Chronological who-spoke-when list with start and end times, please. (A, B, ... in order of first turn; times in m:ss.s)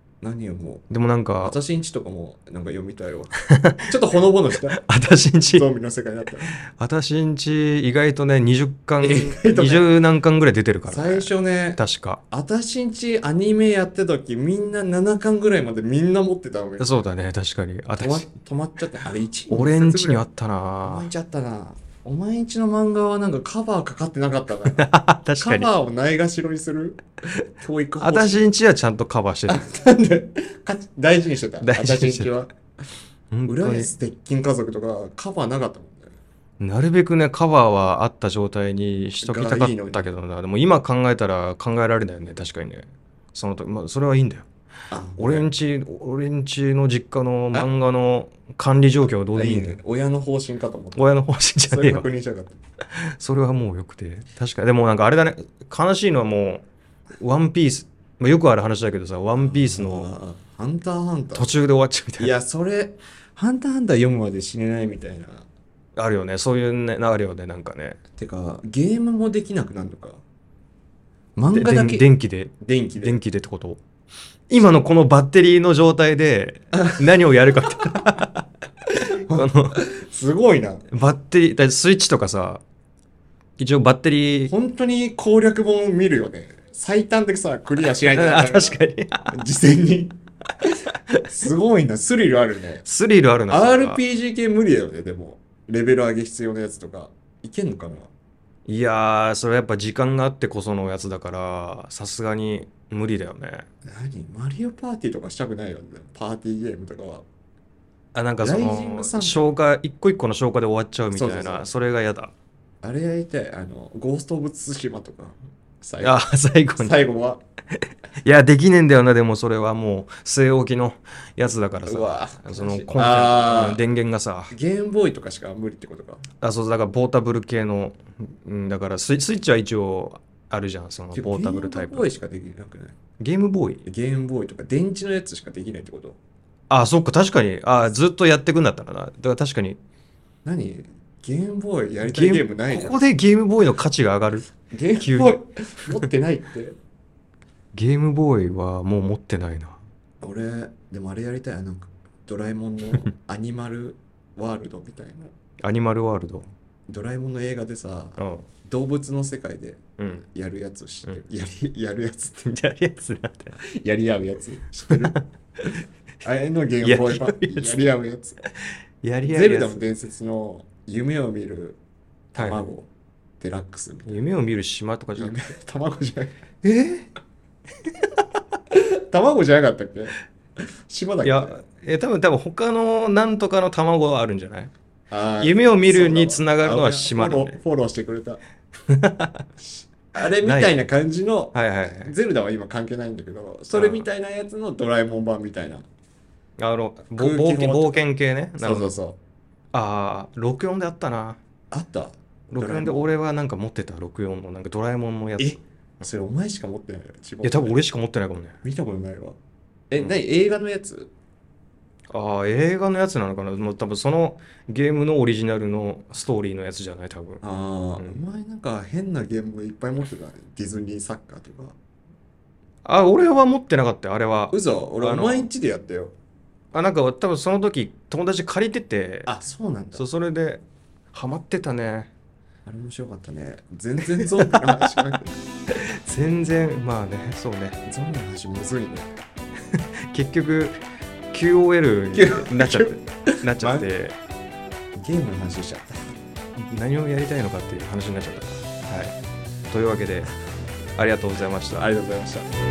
0:00.2-0:00.8 A
0:00.9-0:01.6 B
0:01.4-0:03.3 A
0:03.5-0:03.9 B
0:03.8-0:04.8 A
0:04.8-0:05.6 B
0:05.4-0:06.6 A
0:06.7-0:12.2 B
0:09.0-0:10.0 A
0:10.9-0:17.1 A
0:16.8-0:18.3 B
0:17.9-0:20.2 A
0:19.5-0:21.1 B
0:20.8-0:27.0 A
0:24.7-0:25.7 B
0:27.6-0:28.5 A
0:28.0-0:29.7 B
0:29.5-0:32.5 A
0:31.6-0:32.3 B
0:33.3-0:33.9 B
0:33.5-0:36.2 A
0:36.6-0:44.5 B
0:39.2-0:40.0 A
0:44.9-0:45.5 A
0:45.2-0:49.8 B
0:49.1-0:51.1 A
0:51.0-0:52.1 B
0:51.7-0:52.6 A
0:53.0-0:56.7 B
0:57.2-1:00.1 B
0:59.3-1:01.6 A
1:01.4-1:02.3 B
1:02.2-1:05.5 A
1:06.0-1:08.0 B
1:08.2-1:10.2 A
1:11.4-1:12.1 A
1:11.5-1:13.8 B
1:12.6-1:13.2 A
1:14.5-1:18.4 B
1:16.7-1:17.2 A
1:17.8-1:18.1 A
1:19.0-1:19.8 B
1:19.2-1:20.9 A
1:20.9-1:22.6 B
1:23.6-1:24.5 B
1:24.5-1:30.2 A
1:27.9-1:29.4 B
1:31.3-1:32.8 A
1:32.8-1:34.0 B
1:33.5-1:38.1 A
1:38.7-1:43.7 B
1:43.8-1:47.2 A
1:48.2-1:52.3 B
1:48.4-1:49.5 A
1:51.1-1:51.7 A
1:52.8-1:56.2 A
1:56.0-1:57.0 B
1:56.8-1:57.4 A
1:58.2-2:04.6 B
2:01.8-2:03.8 A
2:04.5-2:06.2 A
2:06.4-2:12.1 B
2:11.1-2:13.0 A
2:13.2-2:13.8 B
2:13.8-2:16.2 A
2:16.7-2:19.8 B
2:20.4-2:23.0 A
2:22.0-2:24.5 B
2:24.7-2:26.8 A
2:25.0-2:25.4 B
2:27.7-2:29.8 B
2:30.2-2:35.3 A
2:35.6-2:36.5 B
2:36.9-2:42.5 A
2:38.2-2:38.5 B
2:40.0-2:40.3 B
2:42.5-2:43.6 B
2:43.6-2:45.2 A
2:45.0-2:45.2 B
2:46.2-2:48.4 A
2:46.8-2:47.9 B
2:48.4-2:49.9 B
2:49.2-2:51.8 A
2:52.3-2:52.9 A
2:52.4-2:52.7 B
2:53.4-2:54.2 A
2:54.1-2:55.4 B
2:55.2-2:57.1 A
2:58.7-3:00.1 A
3:00.9-3:01.6 A
3:01.2-3:04.7 B
3:05.1-3:08.4 A
3:05.4-3:07.6 B
3:08.9-3:09.4 B
3:10.1-3:15.9 A
3:10.3-3:10.8 B
3:11.5-3:12.1 B
3:13.7-3:14.1 B
3:16.6-3:18.9 B
3:17.2-3:18.0 A
3:18.6-3:19.2 A
3:19.7-3:21.4 B
3:21.7-3:23.1 A
3:22.5-3:25.6 B
3:25.4-3:27.8 A
3:27.4-3:28.6 B
3:28.6-3:29.4 A
3:29.9-3:31.1 A
3:32.1-3:37.4 B
3:37.4-3:41.8 A
3:42.8-3:45.5 B
3:44.5-3:46.1 A
3:46.7-3:49.3 B
3:49.2-3:50.0 A
3:50.0-3:52.1 B
3:52.7-3:55.4 A
3:54.1-3:55.0 B
3:55.7-3:57.8 B
3:57.9-3:59.1 A
3:59.7-4:00.8 B
4:01.3-4:04.2 B
4:02.1-4:03.9 A
4:05.0-4:06.0 A
4:06.7-4:09.1 B
4:09.7-4:10.3 B
4:11.0-4:11.9 B
4:11.8-4:12.5 A